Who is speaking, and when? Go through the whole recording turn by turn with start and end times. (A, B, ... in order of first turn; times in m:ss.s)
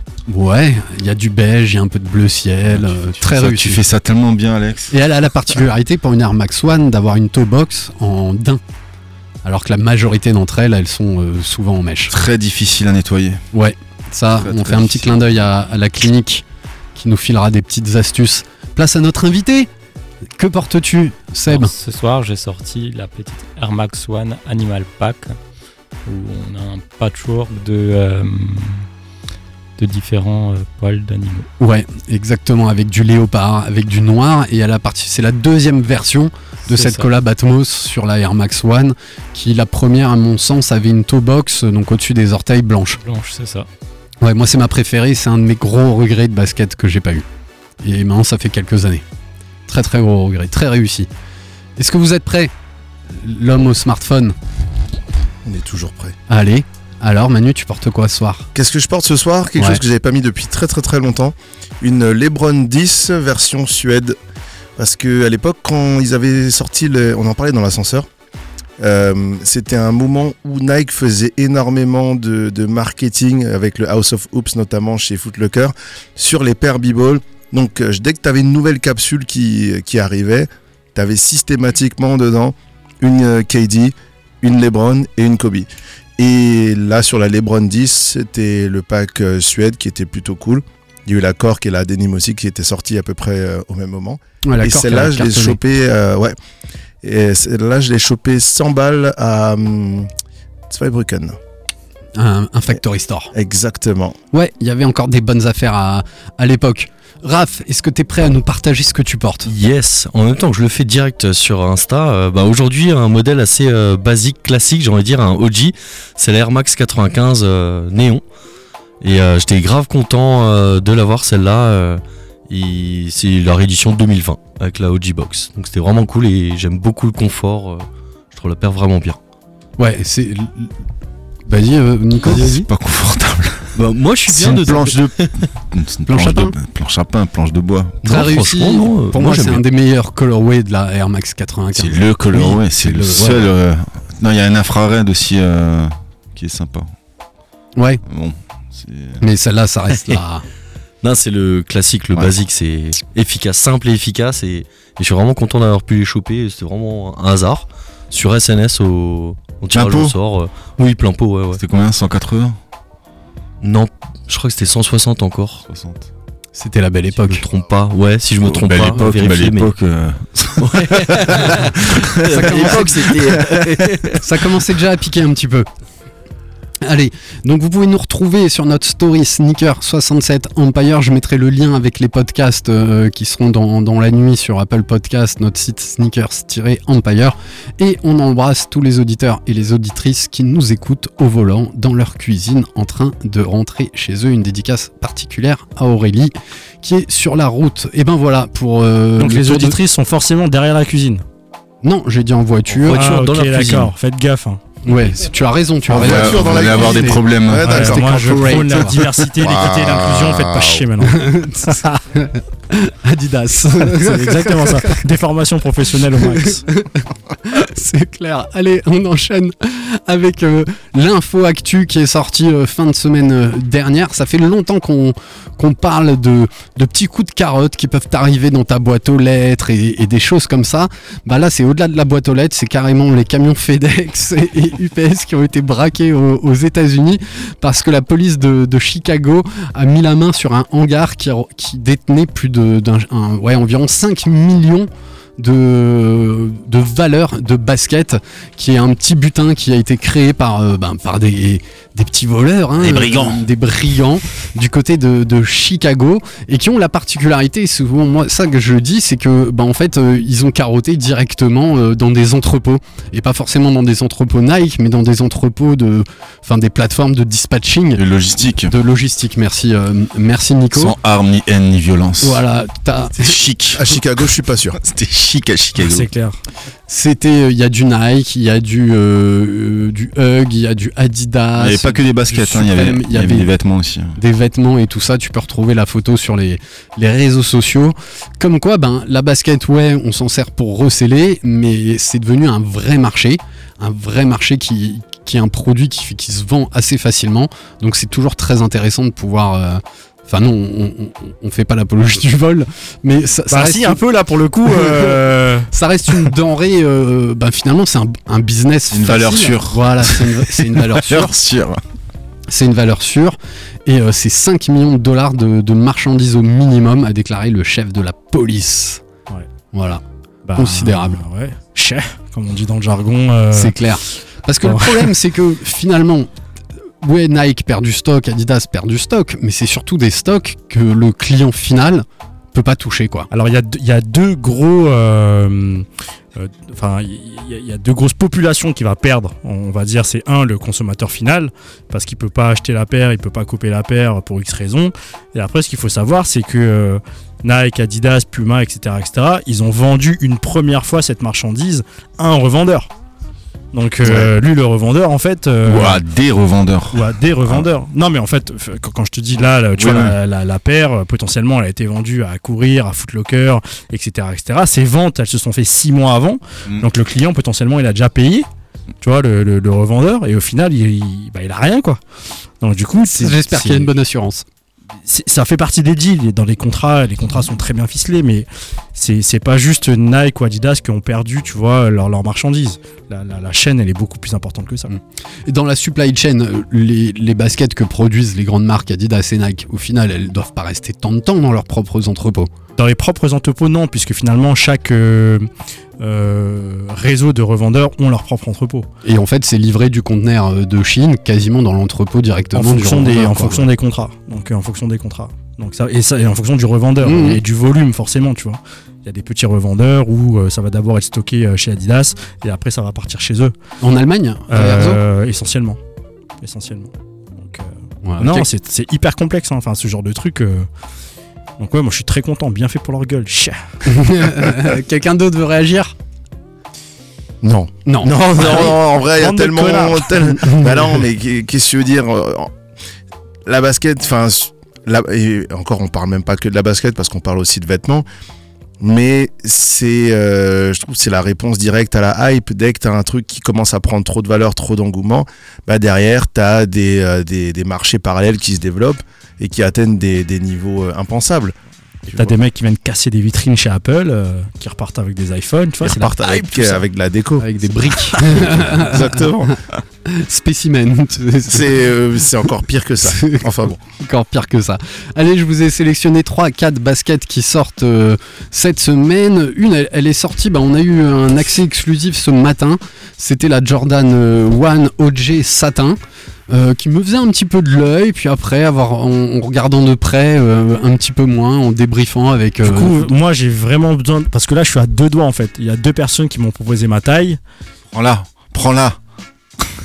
0:00.3-0:03.8 A
0:02.7-0:04.9 B
0:04.9-0:08.6 A
0:09.4-0:12.1 A
0:12.1-0:13.4 B
0:13.5-0:16.4 A
0:14.3-0:15.2 B
0:17.0-0:19.7 A
0:20.4-0:21.7 A
0:21.5-0:25.4 C
0:26.1-0:28.9 C
0:29.8-0:31.5 C
0:31.6-0:43.0 A
0:36.7-0:37.1 C
0:43.0-0:43.7 C
0:44.2-0:47.3 A
0:47.8-0:49.0 A
0:49.7-0:51.1 A
0:51.8-0:52.5 A
0:53.1-0:54.4 A
0:55.4-0:56.2 D
0:56.3-0:58.5 A
0:58.6-1:04.2 D
0:59.6-0:59.8 A
1:04.8-1:08.1 D
1:08.8-1:25.7 D
1:26.2-1:36.4 D
1:34.4-1:35.6 A
1:37.0-1:40.1 D
1:40.7-1:41.4 D
1:42.2-1:43.3 A
1:43.3-1:44.2 D
1:44.3-1:49.5 A
1:49.5-1:58.2 E
1:59.0-2:09.2 E
2:09.8-2:10.7 A
2:11.5-2:12.7 A
2:12.3-2:13.8 B
2:12.3-2:12.6 E
2:13.8-2:15.4 E
2:14.3-2:18.0 B
2:14.5-2:14.8 A
2:16.1-2:16.6 A
2:18.0-2:19.6 E
2:18.0-2:23.5 A
2:21.7-2:26.9 B
2:27.8-2:28.0 A
2:28.0-2:29.2 B
2:29.2-2:30.4 A
2:31.0-2:41.6 E
2:39.7-2:40.2 B
2:41.5-2:42.6 B
2:43.6-2:45.6 E
2:45.7-2:46.1 B
2:46.6-2:47.4 A
2:47.2-2:49.7 E
2:48.4-2:54.2 B
2:50.6-2:53.8 E
2:52.3-2:55.7 A
2:56.8-3:19.8 A
3:19.2-3:21.2 F
3:21.8-3:23.0 A
3:22.7-3:23.9 E
3:22.9-3:24.6 F
3:24.8-3:29.1 A
3:25.9-3:28.0 D
3:25.9-3:27.9 B
3:27.6-3:31.9 F
3:29.4-3:30.8 D
3:31.1-3:35.0 A
3:33.9-3:36.6 F
3:36.3-4:28.1 A
4:12.8-4:13.4 B
4:28.0-4:28.7 B
4:28.6-4:31.0 A
4:30.7-4:32.4 B
4:32.2-4:33.4 A
4:33.2-4:33.9 B
4:33.8-4:34.8 D
4:34.8-4:36.1 B
4:35.8-4:36.4 F
4:36.9-4:43.5 A
4:41.6-4:44.2 B
4:44.2-5:04.0 A
5:03.5-5:05.7 F
5:04.7-5:11.4 A
5:08.9-5:11.8 B
5:12.5-5:19.0 A
5:19.7-5:20.0 A
5:20.5-5:23.8 F
5:20.6-5:21.2 A
5:23.5-5:26.3 A
5:24.6-5:25.1 F
5:27.0-5:33.3 A
5:33.3-5:52.9 F
5:53.7-5:56.0 F
5:54.0-5:54.3 B
5:55.6-5:57.7 B
5:56.9-6:08.5 F
5:59.8-6:00.2 B
6:09.0-6:12.0 F
6:12.6-6:13.9 F
6:13.1-6:14.4 A
6:15.1-6:24.9 F
6:24.9-6:32.5 A
6:32.8-6:38.9 F
6:39.0-6:43.7 A
6:42.5-6:53.5 F
6:47.0-6:47.4 A
6:53.8-6:55.0 A
6:54.5-6:55.8 F
6:56.4-7:00.7 F
6:58.0-6:58.5 A
7:01.6-7:03.8 F
7:03.9-7:05.9 A
7:07.4-7:12.5 D
7:07.9-7:08.8 A
7:08.3-7:10.1 F
7:10.3-7:11.0 A
7:13.5-7:18.1 D
7:18.8-7:31.6 D
7:32.1-7:32.4 D
7:32.1-7:36.8 F
7:35.8-7:37.5 D
7:37.4-7:39.3 A
7:38.2-7:39.6 D
7:40.0-7:41.8 A
7:41.5-7:43.8 D
7:43.0-7:56.0 A
7:56.5-8:03.1 A
8:02.6-8:07.4 F
8:07.9-8:09.0 B